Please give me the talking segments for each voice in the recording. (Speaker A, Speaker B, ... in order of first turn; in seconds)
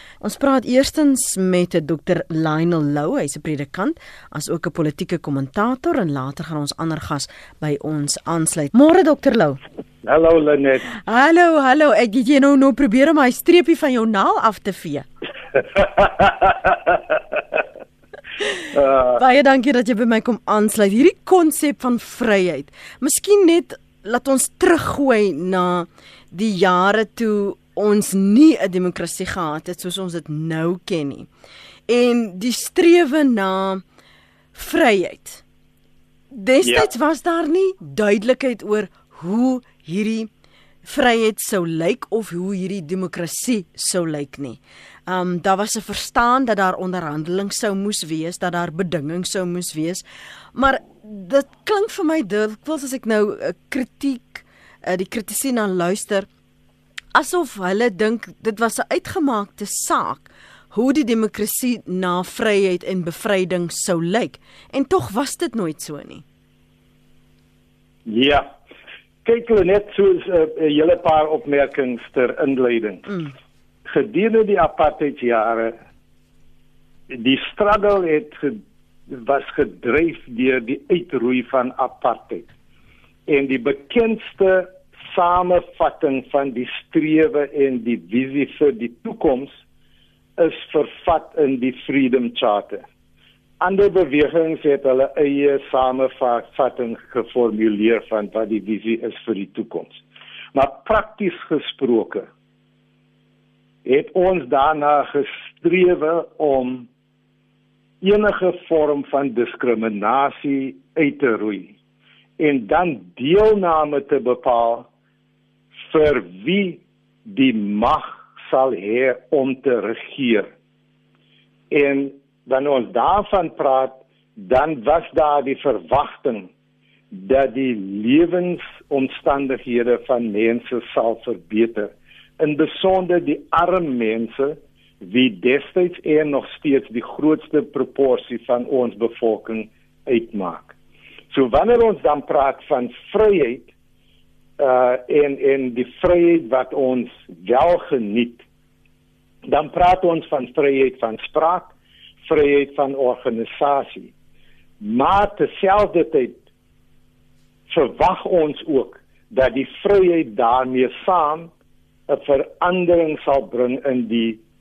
Speaker A: 0.2-9.6, 11.0-15.1, 18.4-31.3, 31.9-33.8, 34.5-35.4, 36.3-40.3, 40.8-50.0, 50.5-56.3, 57.1-66.2
Speaker B: 10.0-10.9, 16.0-16.5, 18.7-19.2, 36.6-36.9, 68.0-68.5, 69.2-73.1, 73.8-75.7, 77.1-82.5, 83.3-89.5, 90.4-92.8, 93.6-100.0, 100.5-102.3, 103.8-106.9, 108.0-111.7, 112.4-114.9, 115.8-120.5, 121.7-126.5, 127.1-140.7, 141.3-143.7, 144.6-148.4, 149.5-151.7, 152.2-154.1, 154.8-156.4, 157.7-161.5, 162.1-164.4